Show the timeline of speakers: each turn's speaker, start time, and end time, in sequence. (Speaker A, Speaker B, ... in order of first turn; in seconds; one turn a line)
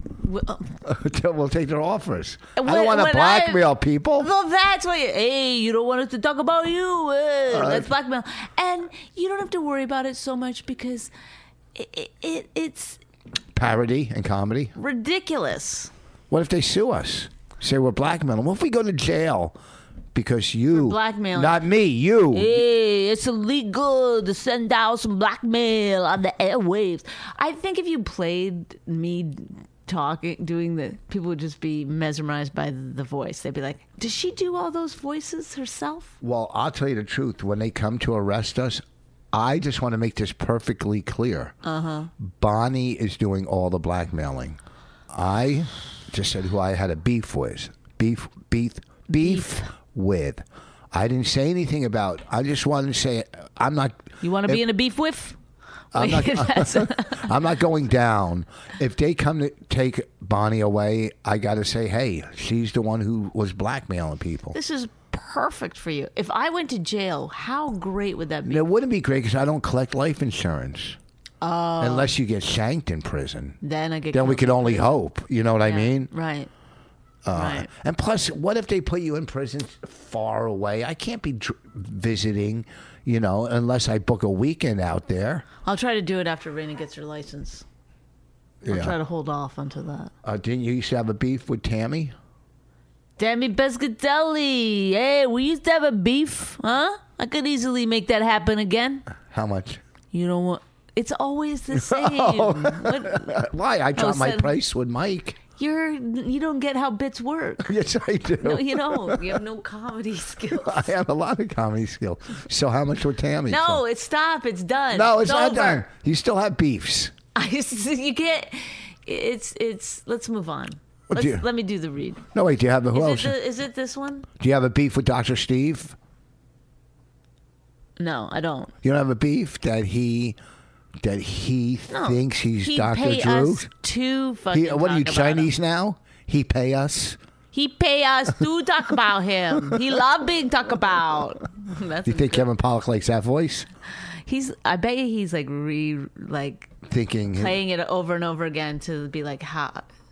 Speaker A: 0.2-0.7
Speaker B: 0.8-4.3
Speaker A: 2.6-11.1
Speaker B: 7.5-7.9
Speaker A: 11.8-13.0
Speaker B: 13.6-14.7
Speaker A: 14.8-15.9
Speaker B: 16.3-19.6
Speaker B: 20.1-22.6
Speaker A: 20.7-21.6
Speaker A: 22.3-36.1
Speaker B: 36.2-41.5
Speaker A: 41.6-42.1
Speaker B: 42.2-44.6
Speaker B: 45.1-54.6
Speaker A: 49.1-49.7
Speaker A: 54.2-55.4
Speaker A: 55.9-57.3
Speaker B: 55.9-64.6
Speaker A: 64.5-68.6
Speaker B: 68.5-71.0
Speaker A: 71.4-72.1
Speaker B: 71.8-73.6
Speaker A: 73.6-74.9
Speaker B: 74.1-76.1
Speaker A: 75.7-76.5
Speaker B: 77.3-85.5
Speaker A: 77.3-77.7
Speaker A: 85.7-87.7
Speaker B: 88.6-89.0
Speaker A: 88.7-90.1
Speaker B: 90.2-92.2
Speaker A: 93.2-99.1
Speaker B: 99.2-99.8
Speaker A: 100.1-103.4
Speaker B: 101.7-105.4
Speaker A: 104.0-104.5
Speaker A: 105.6-107.7
Speaker B: 107.6-109.4
Speaker A: 108.4-110.9
Speaker B: 110.6-113.8
Speaker A: 113.5-115.8
Speaker B: 114.9-117.1
Speaker A: 117.3-122.2
Speaker B: 121.1-121.4
Speaker B: 122.3-123.4
Speaker A: 122.9-124.3
Speaker B: 124.4-126.0
Speaker A: 128.0-128.7
Speaker B: 128.8-130.4
Speaker B: 131.0-133.7
Speaker A: 131.9-135.5
Speaker B: 134.5-137.2
Speaker A: 137.5-142.5
Speaker B: 142.1-143.7
Speaker A: 144.3-146.7
Speaker B: 146.9-147.6
Speaker A: 147.3-149.9